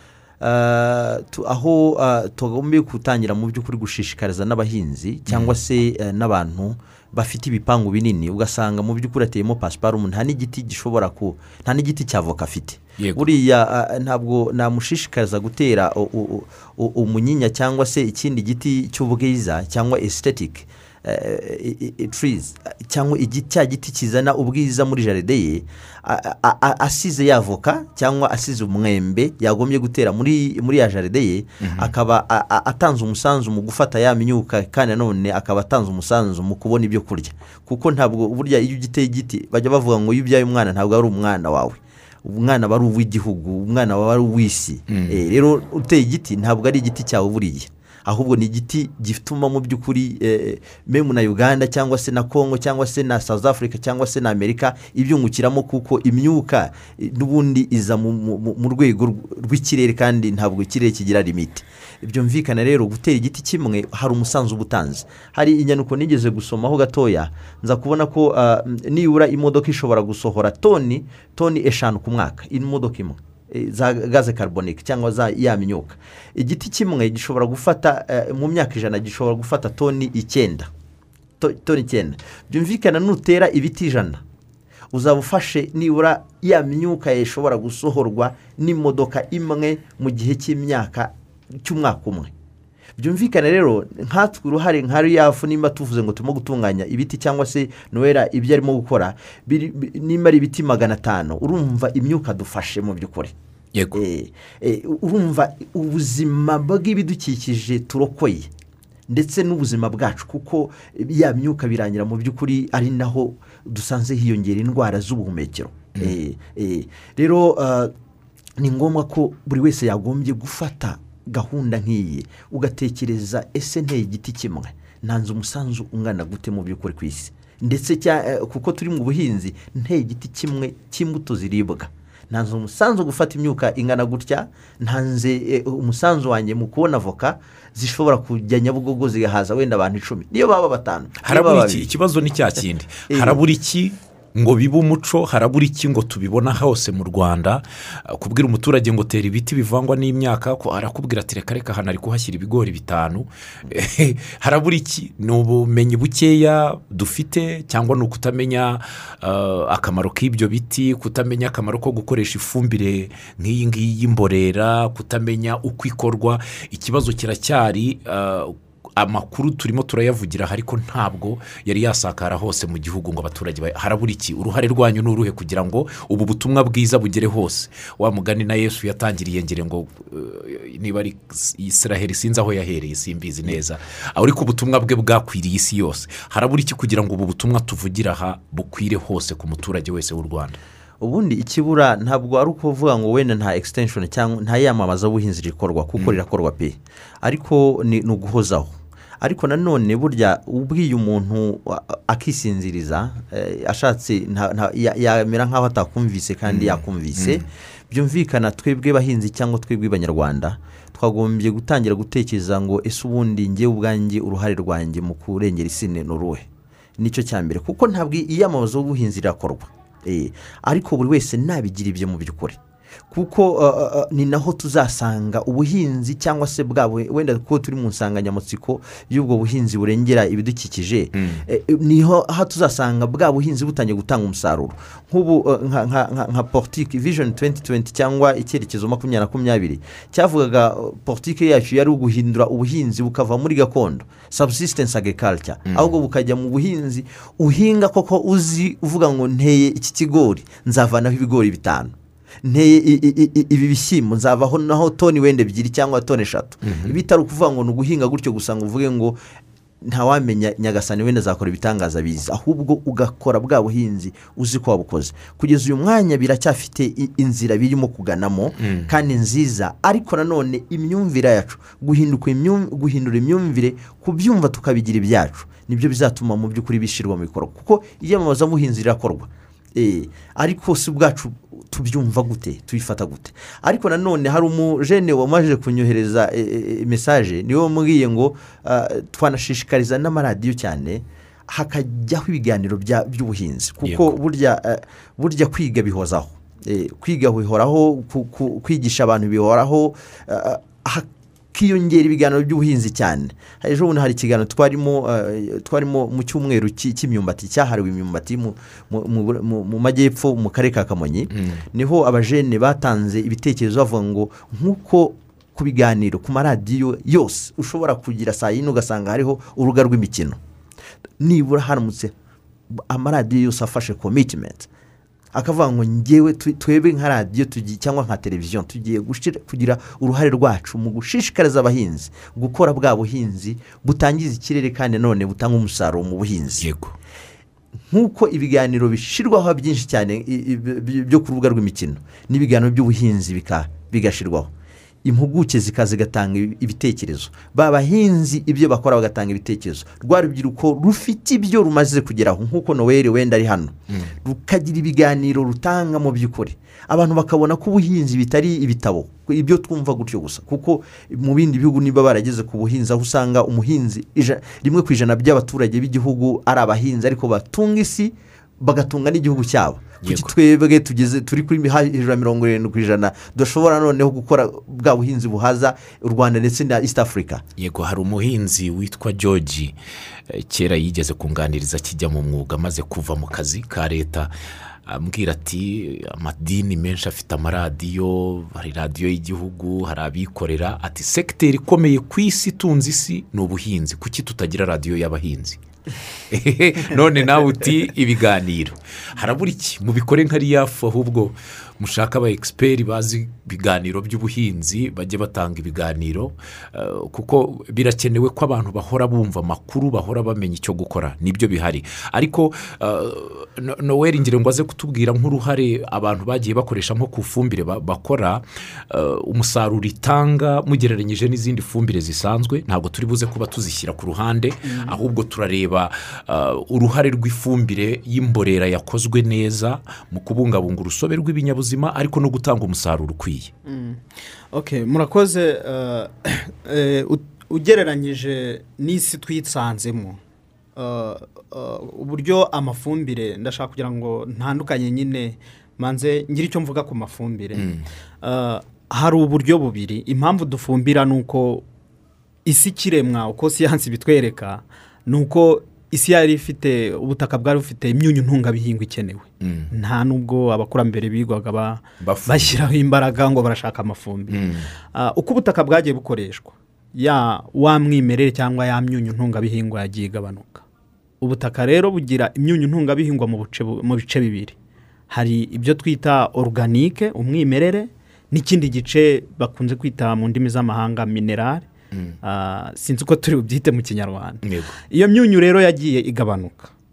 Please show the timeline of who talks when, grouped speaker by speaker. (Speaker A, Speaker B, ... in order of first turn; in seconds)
Speaker A: 0.4-80.7, 81.4-84.2, 84.9-92.3, 93.0-103.3, 103.9-108.5, 109.1-117.9, 118.6-141.9, 143.1-143.4, 191.0-222.6, 223.1-259.2, 259.8-320.4, 321.2-322.1, 322.7-324.7, 325.3-336.7, 337.9-344.5, 345.0-377.4
Speaker B: 5.3-5.5, 13.0-13.2, 31.6-31.9, 44.9-45.2, 103.7-104.0, 141.2-190.6, 206.5-207.4, 231.1-231.4, 256.6-257.0, 268.6-268.9, 293.8-294.1, 311.3-311.6, 336.6-336.9, 370.0-370.3, 377.6-379.7, 380.3-384.3, 384.9-395.6, 396.3-433.5, 447.5-447.9, 459.4-459.7, 462.0-462.6, 464.3-464.7, 484.4-484.8
Speaker C: 424.6-424.9, 433.6-440.2, 440.8-447.7, 448.2-451.6, 452.4-464.4, 464.9-470.6, 471.2-474.6, 475.1-481.6, 482.2-486.7